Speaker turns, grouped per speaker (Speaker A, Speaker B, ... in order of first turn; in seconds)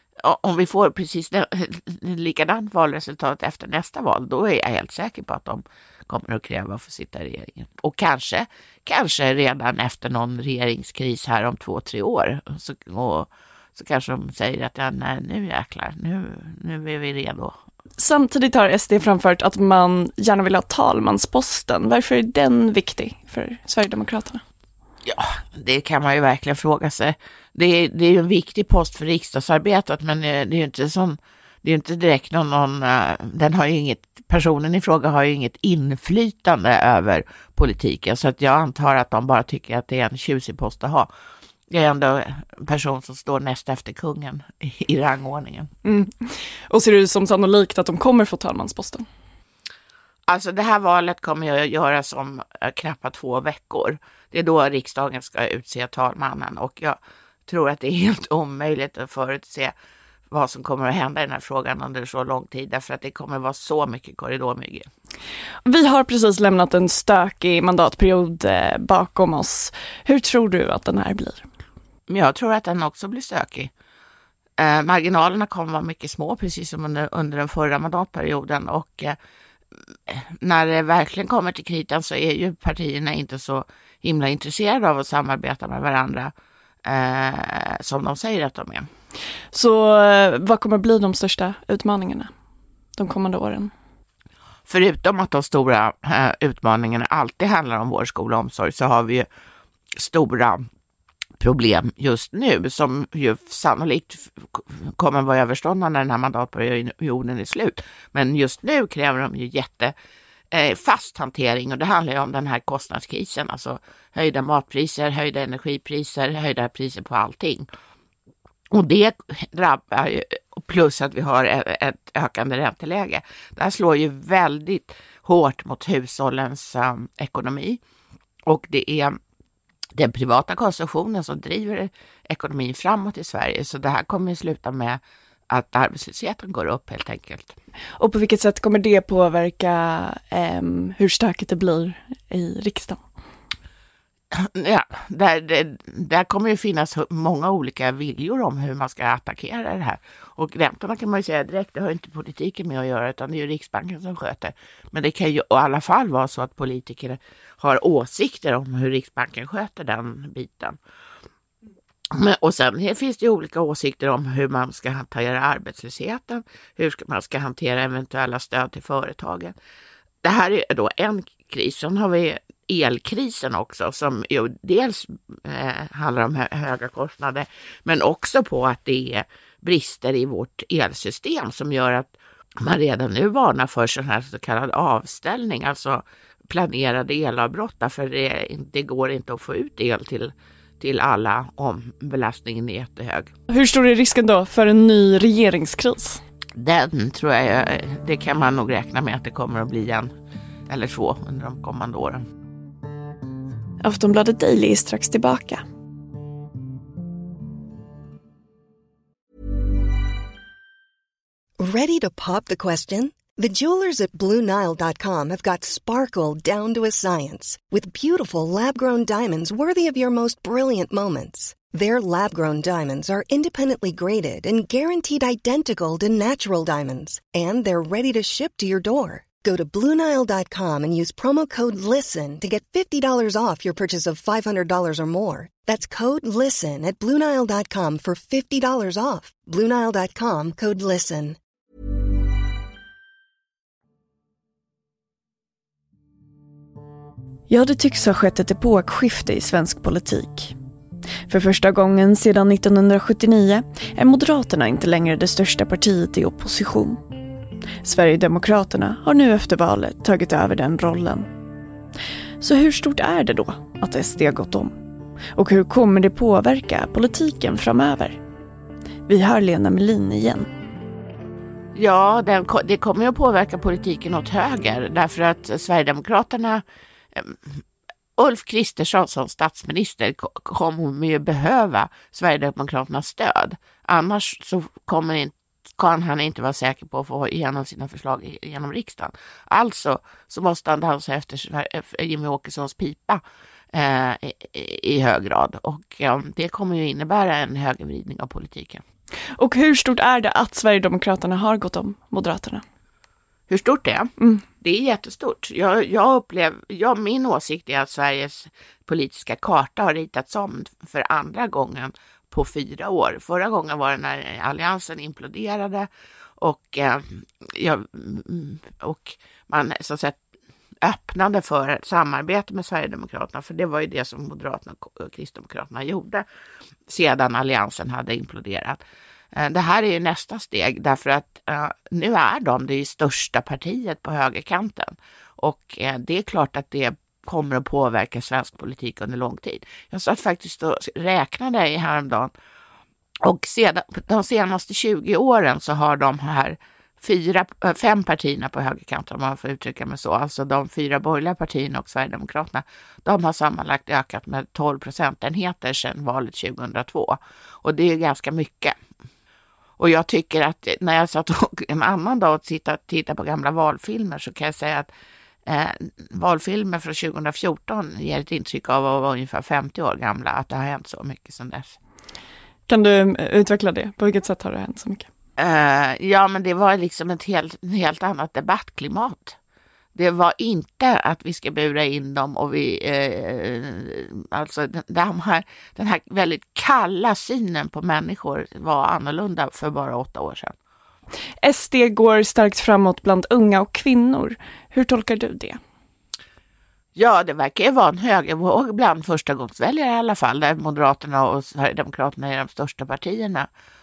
Speaker A: 0.2-17.6, 25.1-41.1, 41.7-45.7, 50.3-59.7, 60.3-64.9, 72.1-73.7, 74.6-79.2, 80.1-86.3, 86.8-88.9, 94.7-99.3, 100.0-100.6, 101.4-109.9, 110.5-117.7, 118.7-127.8, 128.5-129.2, 130.0-135.0, 135.5-137.6, 144.3-160.8, 162.1-169.5, 170.2-193.3, 196.6-200.1, 200.7-202.2, 271.7-276.6, 277.1-277.6, 278.2-293.2, 293.7-298.8, 303.5-304.1, 304.6-315.9, 316.4-320.2, 320.8-326.2, 326.9-328.8, 329.3-342.3, 343.2-358.7, 359.8-364.9, 365.5-371.8, 375.4-379.4, 379.9-390.5, 396.9-403.5
Speaker B: 18.0-24.4, 45.8-49.0, 65.6-71.5, 89.5-92.3, 93.0-93.7, 138.0-143.0, 193.5-196.2, 203.8-205.6, 247.5-250.5, 251.3-257.0, 257.8-261.3, 262.4-264.8, 265.3-268.2, 269.1-270.5, 299.4-302.6, 304.2-304.4, 372.7-375.1, 391.4-395.6
Speaker C: 211.6-241.4